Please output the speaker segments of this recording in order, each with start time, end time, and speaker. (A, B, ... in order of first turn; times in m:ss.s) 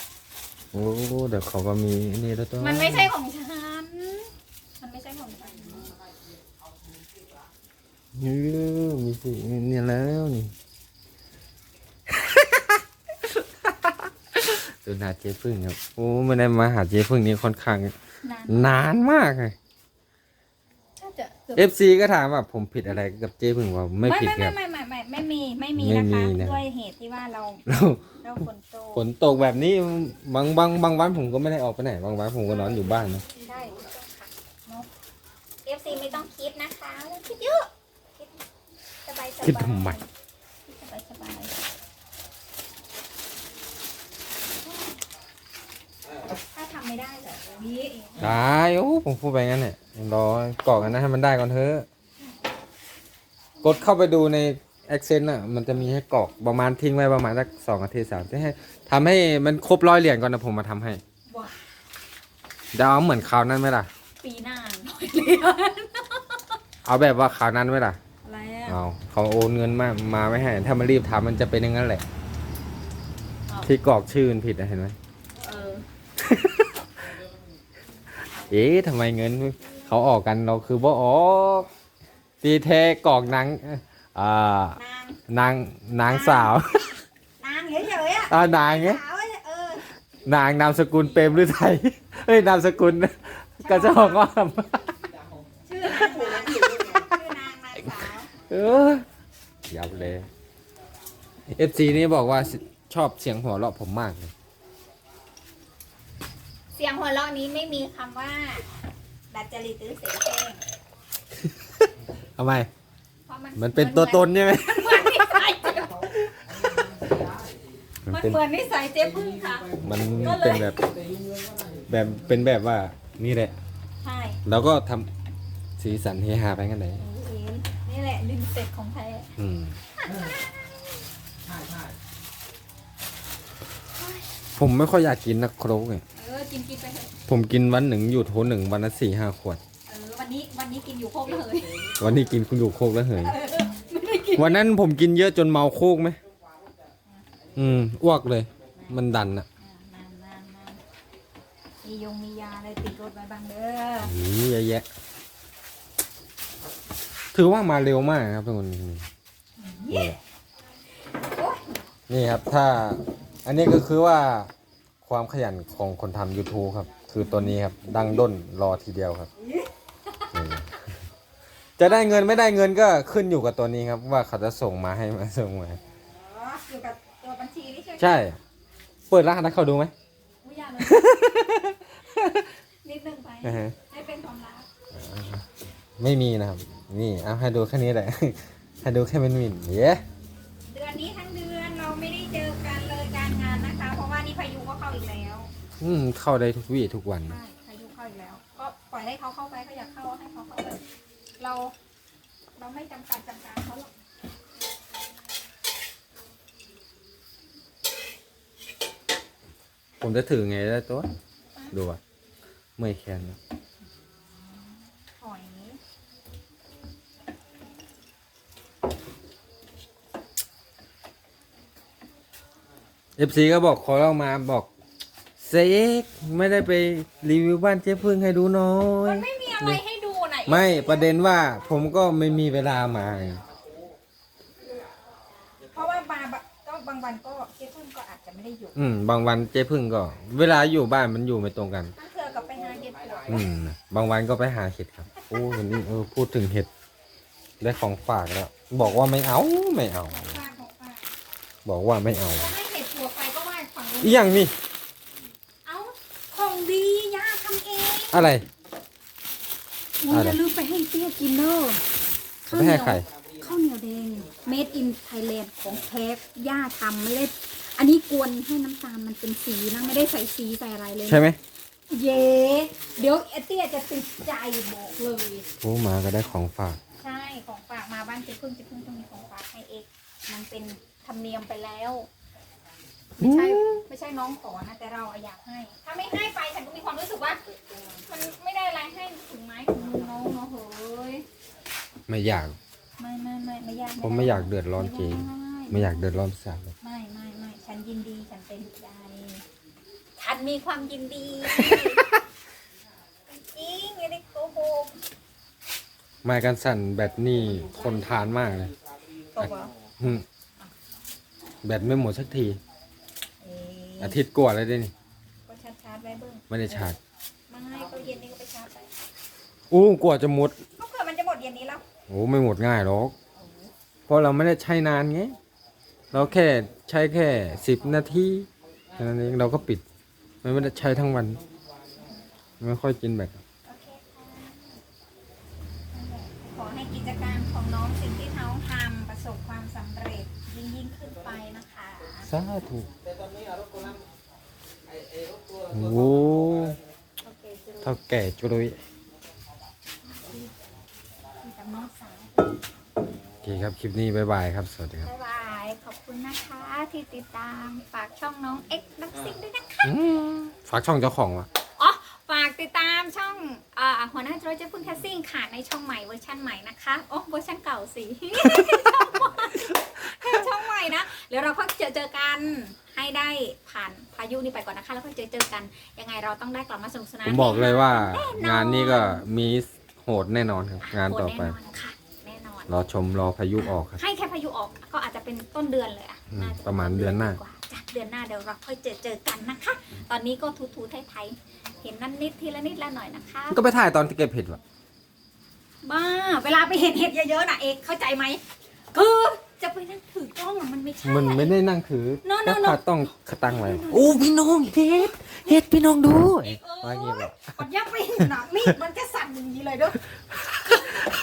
0:00.7-0:03.1 A
0:02.6-0:05.9 B
0:08.2-0:10.5 A
0:12.1-0:17.9 A
0:18.2-0:18.8 B
0:18.5-0:19.6 A
0:21.0-0:21.6 B
0:21.6-0:24.6 A
0:24.0-0:27.6 B
0:25.8-0:26.6 A
0:27.7-0:28.0 A
0:28.2-0:29.1 B
0:28.9-0:33.2 A
0:32.4-0:34.9 B
0:35.6-0:38.3 B
0:39.0-0:40.1 B
0:39.4-0:40.0 A
0:40.6-0:41.6 B
0:46.5-0:48.3 B
0:48.2-0:51.9 A
0:53.6-1:01.0 A
1:01.3-1:01.6 B
1:02.7-1:03.9 A
1:04.2-1:06.4 B
1:06.8-1:08.0 A
1:08.2-1:08.8 B
1:08.7-1:12.0 A
1:13.6-1:15.0 A
1:15.4-1:15.8 B
1:16.2-1:16.7 A
1:18.5-1:21.7 A
1:22.4-1:26.9 A
1:24.8-1:25.2 B
1:26.0-1:26.6 B
1:27.4-1:29.8 B
1:28.3-1:29.0 A
1:30.2-1:35.0 A
1:33.6-1:34.3 B
1:35.2-1:35.4 C
1:35.7-1:38.3 B
1:35.9-1:37.0 C
1:36.7-1:37.1 A
1:38.5-1:39.0 A
1:39.7-1:40.3 A
1:41.5-1:44.3 A
1:46.7-1:48.6 B
1:49.3-1:50.6 B
1:51.4-1:52.7 A
1:53.2-1:55.9 B
1:53.6-1:55.5 A
1:55.7-1:57.6 C
1:58.1-1:58.4 A
1:58.1-2:00.7 B
1:59.0-2:02.3 C
1:59.8-2:00.8 A
2:01.9-2:03.6 A
2:04.0-2:04.4 B
2:04.4-2:05.1 A
2:05.8-2:07.0 A
2:07.0-2:09.3 B
2:09.4-2:09.8 A
2:10.1-2:10.4 C
2:11.4-2:12.0 C
2:14.0-2:14.2 B
2:14.6-2:16.0 A
2:16.2-2:17.1 B
2:17.3-2:19.6 A
2:19.8-2:21.9 B
2:22.0-2:23.4 A
2:23.2-2:24.6 B
2:24.3-2:26.2 A
2:27.6-2:29.4 A
2:28.7-2:29.0 B
2:29.6-2:30.8 B
2:31.8-2:34.1 B
2:34.0-2:34.8 A
2:37.3-2:39.0 A
2:39.6-2:40.2 B
2:39.9-2:40.2 A
2:41.2-2:41.8 B
2:42.1-2:44.5 A
2:45.0-2:49.3 A
2:47.2-2:47.6 B
2:49.4-2:50.2 B
2:50.3-2:50.7 A
2:51.8-2:55.8 A
2:51.8-2:52.5 B
2:56.2-2:58.2 B
2:58.0-2:58.4 A
2:59.1-2:59.9 A
3:00.4-3:01.2 B
3:00.8-3:02.4 A
3:02.8-3:04.7 B
3:03.4-3:03.7 A
3:04.9-3:05.5 A
3:06.0-3:10.0 A
3:10.7-3:15.5 B
3:15.8-3:17.4 A
3:17.2-3:20.8 B
3:21.4-3:21.7 B
3:22.6-3:23.9 B
3:30.0-3:31.1 A
3:31.7-3:32.0 A
3:32.8-3:33.4 A
3:35.2-3:35.8 B
3:43.2-3:44.7 A
3:45.4-3:49.8 A
3:49.0-3:51.2 B
3:50.5-3:53.4 A
3:55.6-3:58.8 B
3:58.8-4:01.9 A
4:02.0-4:03.4 B
4:02.6-4:03.4 C
4:03.3-4:06.7 A
4:05.2-4:05.5 B
4:07.6-4:10.4 A
4:10.1-4:11.1 B
4:11.6-4:12.5 A
4:12.4-4:14.4 B
4:14.0-4:14.5 A
4:15.6-4:18.3 B
4:18.1-4:18.4 A
4:20.0-4:21.8 B
4:20.1-4:20.4 A
4:22.4-4:31.3 B
4:22.5-4:23.1 A
4:31.1-4:31.4 A
4:31.9-4:35.4 B
4:35.6-4:36.8 A
4:37.0-4:42.1 B
4:43.2-4:51.2 B
4:43.2-4:43.8 A
4:52.1-4:52.6 A
4:53.0-4:56.0 B
4:54.0-4:56.7 A
4:56.8-4:59.4 B
5:00.2-5:02.1 B
5:01.5-5:02.1 A
5:03.3-5:05.0 B
5:06.2-5:08.7 A
5:09.4-5:09.7 B
5:09.4-5:10.2 A
5:11.6-5:12.6 A
5:13.4-5:14.2 B
5:14.0-5:14.9 A
5:15.5-5:17.0 B
5:16.5-5:17.0 A
5:17.5-5:18.9 B
5:19.7-5:20.6 A
5:20.8-5:21.8 B
5:22.1-5:23.1 A
5:23.4-5:23.7 B
5:24.1-5:25.4 A
5:26.1-5:26.4 B
5:26.1-5:29.8 A
5:28.9-5:29.5 C
5:30.4-5:31.4 A
5:32.6-5:33.4 A
5:33.7-5:34.8 B
5:35.9-5:42.3 B
5:42.2-5:42.9 A
5:43.0-5:44.0 C
5:44.9-5:46.8 C
5:45.7-5:46.8 A
5:47.2-5:48.0 B
5:47.8-5:48.8 A
5:50.1-5:50.5 B
5:51.4-5:52.6 B
5:53.4-5:55.1 A
5:55.0-5:59.9 B
5:59.8-6:01.5 A
6:01.8-6:19.2 B
6:17.2-6:21.6 A
6:20.8-6:22.7 B
6:22.7-6:24.0 A
6:23.6-6:33.6 B
6:26.3-6:27.4 A
6:33.5-6:34.6 A
6:35.8-6:38.4 B
6:38.9-6:41.6 B
6:41.0-6:47.5 A
6:42.2-6:42.8 B
6:43.4-6:44.3 B
6:44.9-6:45.7 B
6:46.4-6:51.0 B
6:50.7-6:51.0 A